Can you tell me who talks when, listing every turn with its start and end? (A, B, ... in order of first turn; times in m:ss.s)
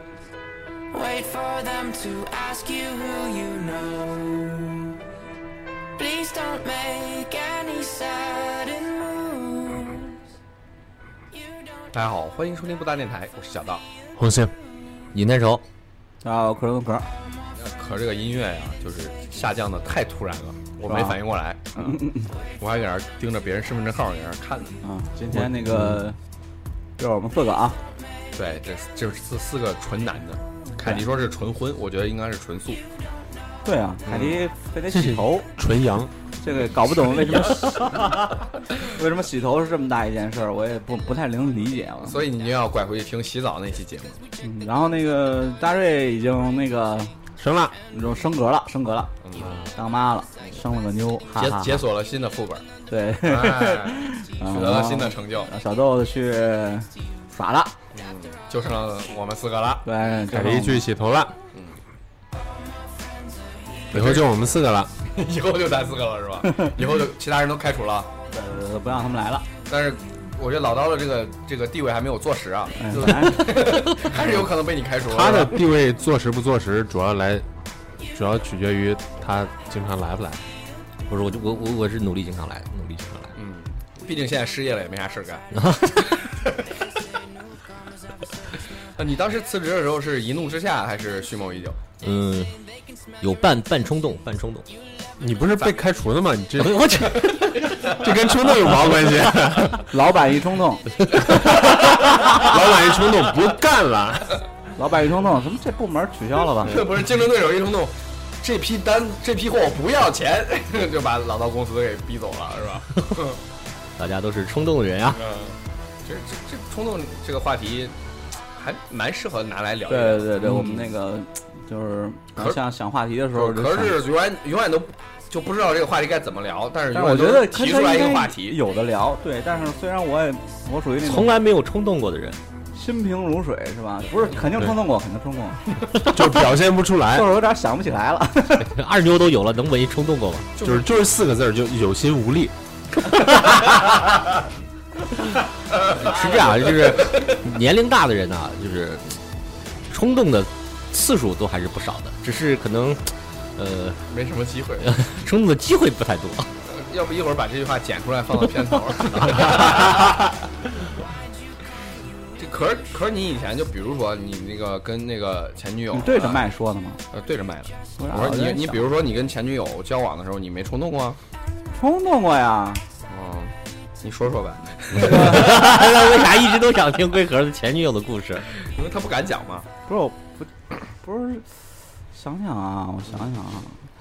0:00.9-0:04.9 A
0:06.0-0:10.1 A
0:11.4-0:11.9 A
0:11.9-0:13.8 B
0:14.2-0:14.5 C
0:15.1-0:15.6 D
0:16.2-0:17.1 E
0:17.6-0:22.0 B
0:20.8-0:21.2 E
0:21.8-0:22.3 E
0:22.6-0:24.8 B
0:24.8-0:26.2 E
0:25.6-0:25.9 C
0:27.0-0:27.8 E
0:28.3-0:32.8 B
0:33.6-0:35.5 E
0:34.1-0:34.4 B
0:34.9-0:36.1 C
0:36.4-0:42.2 E
0:42.0-0:44.2 B
0:44.4-0:47.1 E
0:47.4-0:47.7 C
0:47.9-0:49.1 E
0:49.2-0:49.6 B
0:49.4-0:49.6 D
0:49.7-0:51.8 E
0:51.3-0:52.6 B
0:52.9-0:57.7 E
0:53.2-0:55.5 B
0:57.9-0:59.8 B
0:59.8-1:00.8 E
1:00.3-1:01.3 C
1:03.9-1:04.3 B
1:03.9-1:04.9 C
1:05.1-1:08.1 B
1:08.3-1:09.4 E
1:09.7-1:15.6 B
1:12.8-1:13.7 E
1:15.0-1:17.4 C
1:18.0-1:20.4 C
1:21.1-1:23.3 D
1:23.4-1:26.6 B
1:25.5-1:26.1 D
1:29.0-1:31.8 B
1:32.0-1:32.6 D
1:33.2-1:34.7 D
1:35.2-1:37.1 C
1:36.6-1:38.0 D
1:37.3-1:37.8 B
1:37.8-1:39.8 C
1:38.8-1:39.2 D
1:39.8-1:41.2 E
1:41.4-1:44.4 C
1:44.8-1:46.9 E
1:46.6-1:53.4 B
1:54.0-1:55.2 D
1:55.1-1:57.9 B
1:58.5-2:00.7 B
1:59.9-2:04.0 E
2:03.3-2:08.6 B
2:06.9-2:11.3 E
2:11.0-2:12.4 D
2:12.7-2:15.8 E
2:16.0-2:17.3 C
2:17.1-2:18.7 E
2:18.6-2:20.5 D
2:20.5-2:20.8 B
2:20.6-2:22.5 C
2:25.7-2:27.3 B
2:25.9-2:29.2 D
2:29.9-2:34.0 D
2:34.1-2:35.0 B
2:34.8-2:36.5 D
2:36.7-2:40.2 B
2:42.4-2:46.4 B
2:45.9-2:47.0 E
2:47.1-2:51.2 B
2:48.0-2:48.9 E
2:51.7-2:52.8 E
2:53.1-2:55.9 B
2:54.9-2:55.7 E
2:55.1-2:58.4 D
2:58.7-2:59.7 B
2:59.9-3:00.5 E
3:01.0-3:01.5 E
3:02.1-3:03.8 E